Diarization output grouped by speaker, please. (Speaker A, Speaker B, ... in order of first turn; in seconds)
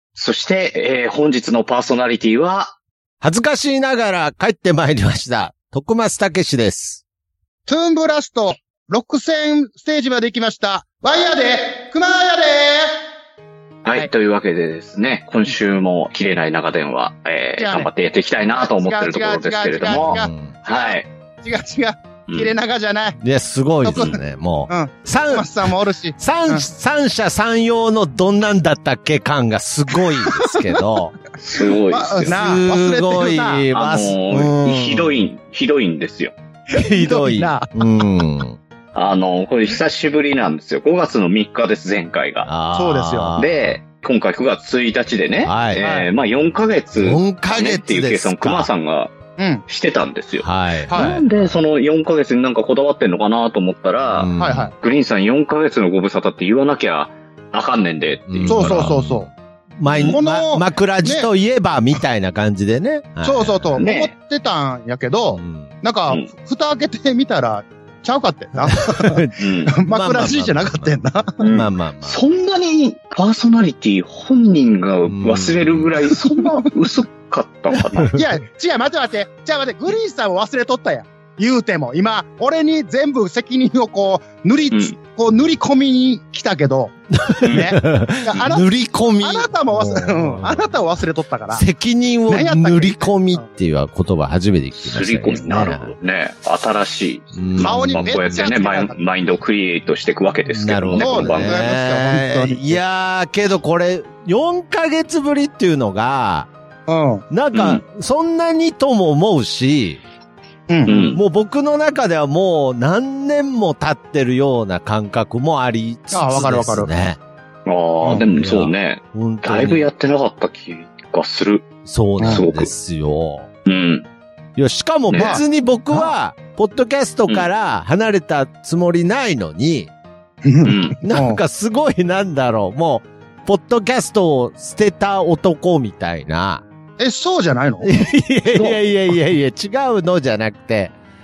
Speaker A: 0.1-2.8, 13.8-21.1, 31.4-32.4, 33.7-36.3, 38.9-42.5, 43.4-49.1, 49.7-58.9, 59.9-60.2, 63.8-64.1, 69.4-69.8, 71.4-78.1, 87.4-87.8, 94.8-101.6, 107.5-107.8, 110.9-111.2, 117.7-121.7, 122.3-122.7, 123.7-124.1, 125.1-125.4, 130.6-131.0
Speaker B: 3.2-7.0, 19.9-20.5, 23.2-25.5, 26.2-31.1, 32.2-35.2, 36.7-38.6, 42.5-43.8, 45.4-45.8, 47.0-48.7, 50.4-51.6, 54.1-54.7, 58.3-63.8, 65.3-65.7, 68.7-72.2, 75.1-76.0, 77.7-78.2, 87.2-90.7, 91.5-95.9, 97.3-98.4, 100.5-106.5, 107.3-110.0, 111.1-117.2, 118.0-119.9, 121.8-123.5, 124.6-129.9, 131.0-136.6, 137.8-140.9
Speaker C: 7.7-13.0, 17.6-17.9, 18.5-23.2, 23.8-24.1, 24.7-26.6, 30.3-30.6, 31.9-33.7, 36.8-37.7, 42.7-43.3, 45.8-46.1, 49.4-49.6, 50.9-51.2, 54.4-54.7, 58.5-59.3, 60.1-61.3, 63.2-71.4, 76.2-76.7, 78.1-86.9, 87.5-88.7, 89.2-91.7, 92.3-93.4, 97.6-99.0, 101.0-102.8, 106.9-107.2, 110.7-111.1, 116.1-116.9, 125.2-126.1, 130.4-131.4, 137.0-137.9